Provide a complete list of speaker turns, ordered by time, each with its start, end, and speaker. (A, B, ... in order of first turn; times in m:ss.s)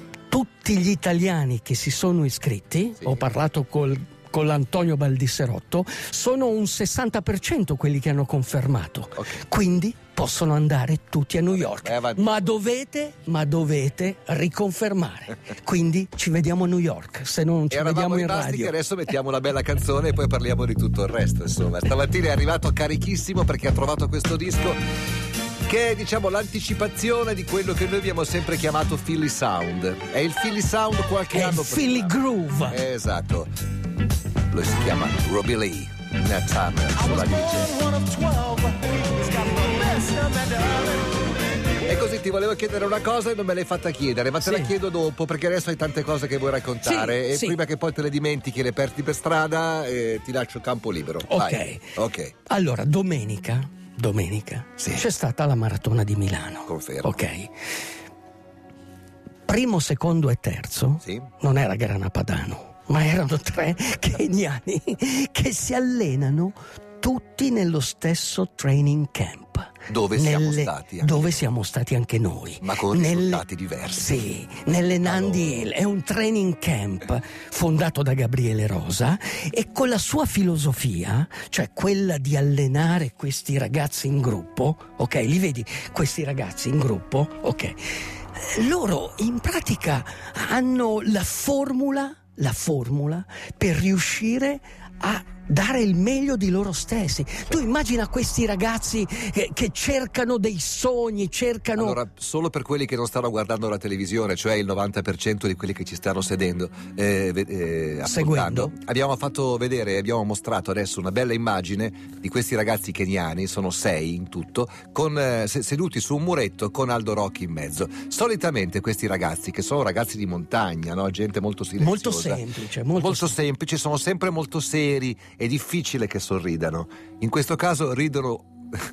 0:00.3-0:18.8 A
0:09.2-0:09.4 B
0:11.5-0:12.5 B
0:17.7-0:24.8 B
0:25.7-0:32.1 B
0:31.3-0:32.8 A
0:32.7-0:33.5 B
0:34.5-0:37.8 B
0:37.7-0:41.1 C
0:41.8-0:52.3 B
0:44.4-0:44.7 A
0:46.8-0:47.6 A
0:51.2-0:51.9 A
0:52.5-0:57.5 A
0:54.8-0:55.0 B
0:56.7-0:57.1 B
0:59.5-1:27.8 A
1:09.9-1:11.4 B
1:12.6-1:14.2 B
1:15.0-1:15.7 B
1:28.4-1:42.0 A
1:41.8-2:02.4 B
1:48.0-1:48.7 A
2:01.8-2:03.4 A
2:03.0-2:08.5 B